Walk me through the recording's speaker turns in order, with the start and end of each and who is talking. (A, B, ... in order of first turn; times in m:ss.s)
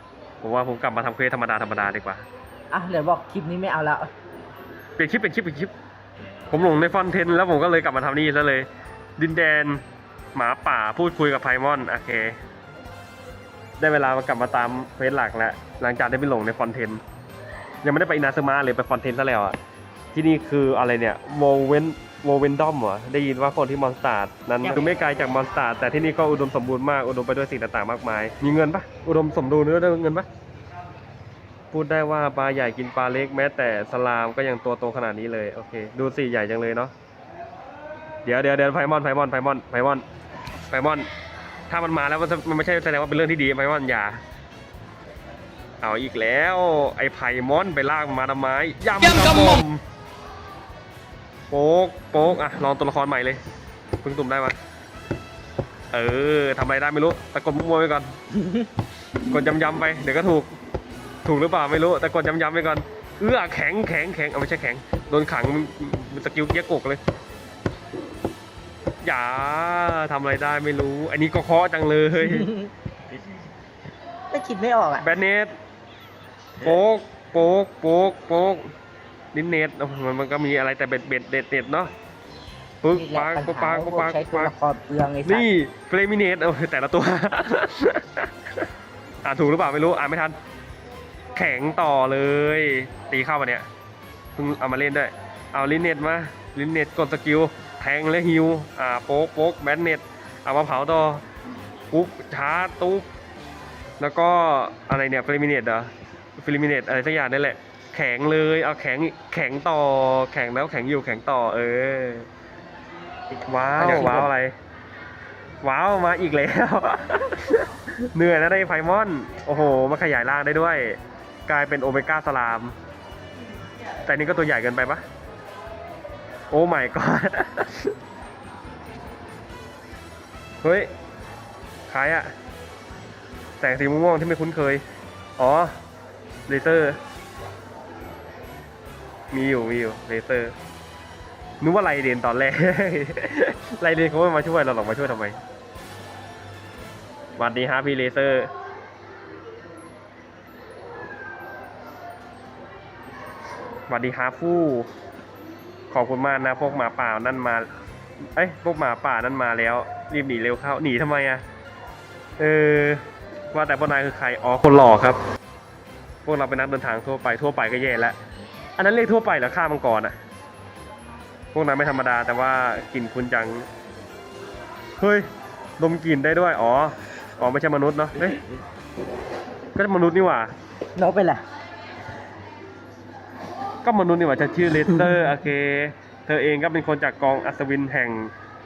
0:00.4-0:02.2 A
0:02.7-0:04.1 B
0:05.0-0:05.7 A
0:06.5-0:09.8 A
0:10.3-0:12.4 A
0:13.8-0:17.0 A
0:17.8-0:19.6 A
0:20.1-0:30.3 A
0:31.7-0:36.9 A
0:38.2-0:40.0 A
0:40.7-0:41.1 A
0:41.7-0:44.2 A
0:45.8-0:49.8 A
0:51.5-0:53.4 A
0:54.0-0:54.6 A
0:55.9-0:58.2 A
0:59.3-1:00.5 A
1:01.2-1:07.0 A
1:09.0-1:12.5 A
1:12.2-1:12.7 B
1:14.3-1:15.0 B
1:15.0-1:15.5 A
1:16.6-1:18.7 A
1:19.3-1:21.9 A
1:22.8-1:24.5 A
1:22.9-1:25.5 B
1:25.2-1:28.6 A
1:29.2-1:30.4 A
1:31.3-1:33.6 A
1:34.4-1:41.2 A
1:41.9-1:43.1 A
1:44.0-1:52.3 A
1:53.4-1:54.6 A
1:53.8-1:54.3 B
1:55.6-2:02.7 A
2:04.0-2:05.0 A
2:06.5-2:07.9 A
2:10.6-2:10.9 A
2:11.9-2:12.3 A
2:13.6-2:14.8 A
2:15.4-2:15.8 A
2:16.5-2:17.0 A
2:19.3-2:20.5 A
2:21.6-2:25.4 A
2:27.4-2:28.5 A
2:33.9-2:34.9 A
2:35.9-2:37.7 A
2:38.4-2:41.4 A
2:42.4-2:45.2 A
2:46.2-2:48.2 A
2:48.8-2:50.1 A
2:51.5-2:53.7 A
2:55.0-2:55.3 A
2:55.8-2:58.4 A
2:59.8-3:00.5 A
3:01.0-3:01.4 B
3:03.8-3:08.3 A